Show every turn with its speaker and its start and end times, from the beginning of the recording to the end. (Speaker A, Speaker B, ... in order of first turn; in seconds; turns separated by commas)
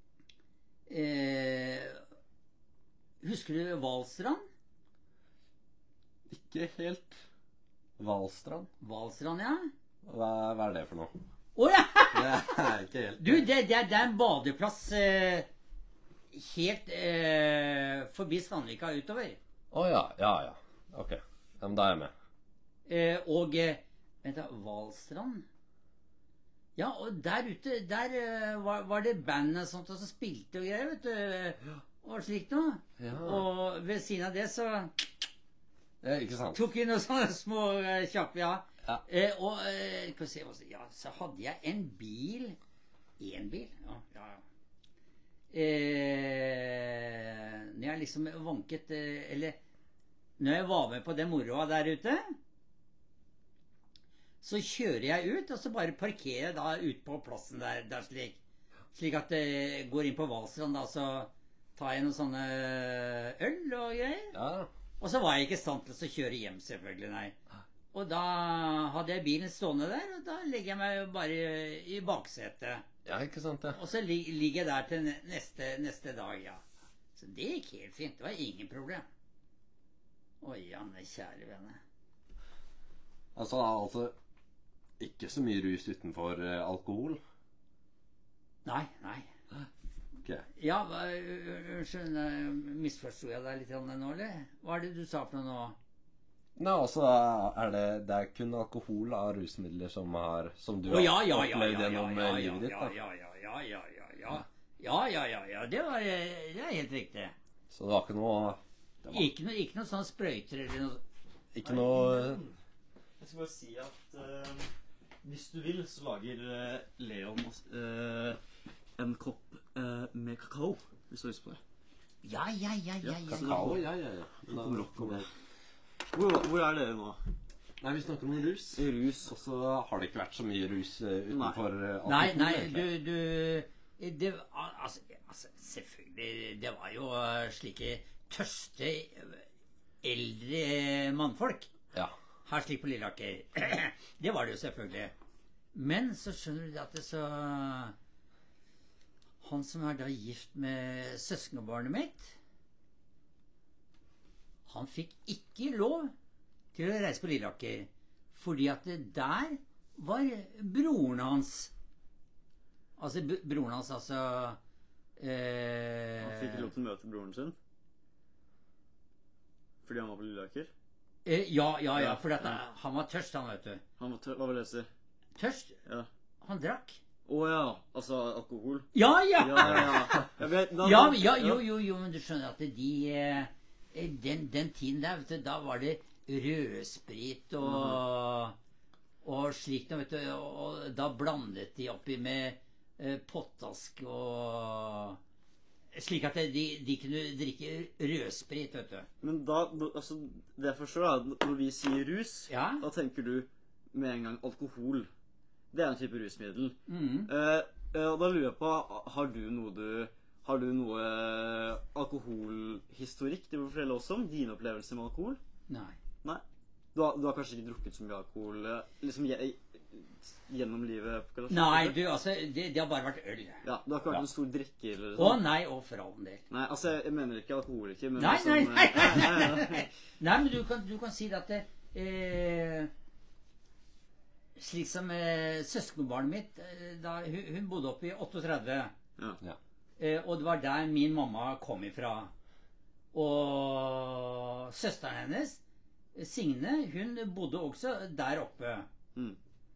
Speaker A: 0.9-2.0, Speaker A: 3.2-4.4, Speaker B: 6.3-7.2, Speaker B: 8.0-8.7, Speaker A: 8.8-9.7, Speaker B: 10.0-11.1, Speaker A: 11.6-12.4, Speaker B: 12.1-13.4, Speaker A: 13.2-15.5, Speaker A: 16.3-19.4, Speaker B: 19.7-22.1, Speaker A: 22.9-25.4, Speaker A: 26.8-35.1, Speaker B: 33.0-33.5, Speaker B: 36.0-36.6, Speaker A: 36.5-42.6, Speaker A: 43.2-44.4, Speaker A: 45.5-49.6, Speaker A: 50.4-52.2, Speaker A: 54.4-58.4, Speaker A: 58.9-64.3, Speaker B: 64.3-64.7, Speaker A: 65.0-67.4, Speaker A: 67.9-72.9, Speaker B: 73.0-73.8, Speaker A: 73.7-76.6, Speaker A: 77.2-79.1, Speaker A: 80.4-81.8, Speaker B: 83.3-84.1, Speaker B: 85.0-87.2, Speaker A: 88.6-89.3, Speaker A: 90.6-95.8, Speaker B: 96.6-102.9, Speaker A: 100.8-107.3, Speaker B: 107.7-109.3, Speaker A: 109.1-111.0, Speaker B: 111.5-112.4, Speaker C: 111.6-112.6, Speaker C: 113.2-114.7, Speaker C: 115.2-118.4, Speaker C: 119.0-121.6, Speaker A: 122.2-123.8, Speaker C: 123.0-123.8, Speaker B: 123.3-125.3, Speaker C: 124.5-125.3, Speaker C: 126.1-127.2, Speaker B: 127.8-132.9, Speaker C: 128.8-129.3, Speaker C: 131.3-131.6, Speaker A: 132.1-139.4, Speaker A: 140.0-141.7, Speaker A: 142.4-145.1, Speaker A: 145.7-147.9, Speaker A: 149.4-152.3, Speaker A: 154.7-156.1, Speaker A: 156.7-161.7, Speaker A: 163.0-164.6, Speaker A: 165.2-166.7, Speaker C: 166.2-167.6, Speaker C: 169.8-170.7, Speaker A: 171.2-173.8, Speaker C: 171.9-172.6, Speaker C: 174.0-174.9, Speaker A: 175.4-175.8, Speaker A: 176.4-177.0, Speaker C: 177.2-181.6, Speaker A: 178.9-180.1, Speaker A: 180.8-188.6, Speaker C: 187.6-188.0, Speaker A: 189.2-195.2, Speaker A: 195.9-199.1, Speaker C: 199.2-205.1, Speaker A: 202.5-202.8, Speaker C: 205.7-215.4, Speaker A: 206.9-207.3, Speaker A: 215.7-216.0, Speaker C: 216.9-221.9, Speaker A: 221.5-223.6, Speaker C: 223.6-225.4, Speaker A: 225.2-226.4, Speaker C: 226.5-229.9, Speaker A: 228.2-232.9, Speaker A: 234.6-238.9, Speaker A: 240.0-242.3, Speaker A: 243.1-245.6, Speaker A: 246.1-248.9